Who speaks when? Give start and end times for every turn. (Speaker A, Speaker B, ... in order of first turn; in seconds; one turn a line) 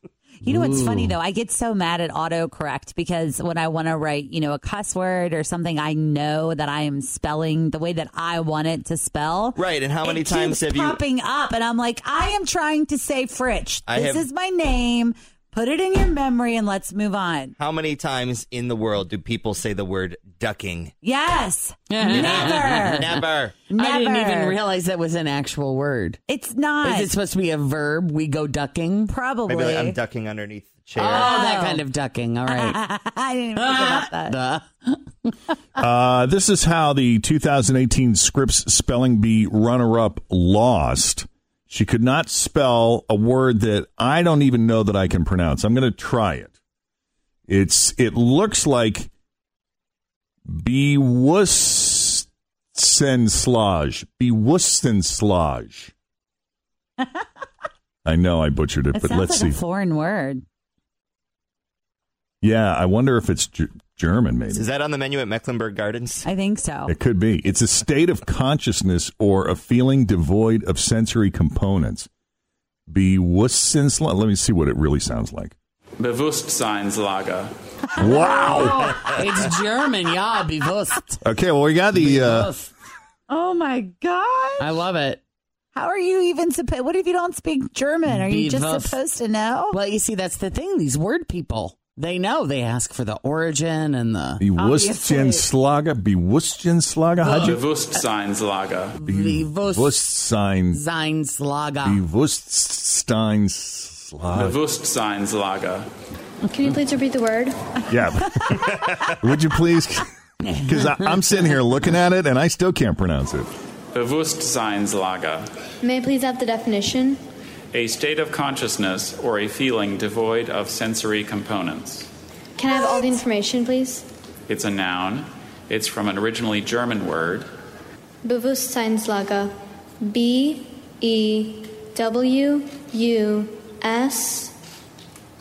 Speaker A: 0.4-17.6
Speaker B: 0.5-1.1
Speaker C: 9.6-11.0
Speaker C: 13.9-14.2
Speaker C: 17.6-20.9
Speaker A: 21.0-24.6
Speaker B: 21.9-23.1
Speaker C: 22.9-23.6
Speaker B: 23.7-26.2
Speaker A: 26.3-27.1
Speaker B: 26.8-29.1
Speaker A: 29.1-30.0
Speaker C: 29.5-31.4
Speaker B: 31.0-32.8
Speaker A: 31.1-31.8
Speaker A: 32.5-34.4
Speaker B: 33.6-35.3
Speaker D: 35.8-46.5
Speaker D: 47.5-49.1
Speaker D: 50.5-55.9
Speaker D: 58.0-59.6
Speaker A: 58.9-60.4
Speaker D: 62.4-64.7
Speaker C: 64.5-66.3
Speaker A: 66.2-66.9
Speaker D: 66.9-72.1
Speaker D: 72.9-75.5
Speaker E: 76.0-77.5
Speaker A: 78.0-78.7
Speaker D: 78.0-79.2
Speaker B: 78.4-81.2
Speaker D: 81.2-82.5
Speaker B: 82.0-82.7
Speaker A: 83.3-84.8
Speaker B: 84.6-85.2
Speaker A: 85.8-89.8
Speaker B: 88.1-89.0
Speaker B: 89.7-94.4
Speaker D: 94.4-97.6
Speaker A: 94.6-95.5
Speaker E: 97.3-99.0
Speaker B: 99.0-100.1
Speaker D: 99.1-100.8
Speaker B: 100.7-102.0
Speaker D: 101.8-104.6
Speaker E: 104.3-105.9
Speaker F: 106.5-107.6
Speaker D: 107.9-110.1
Speaker B: 110.4-111.5
Speaker D: 110.6-113.5
Speaker E: 113.9-115.5
Speaker F: 115.8-117.2
Speaker E: 117.7-122.1
Speaker F: 122.6-124.1
Speaker E: 124.5-127.5
Speaker F: 128.2-134.5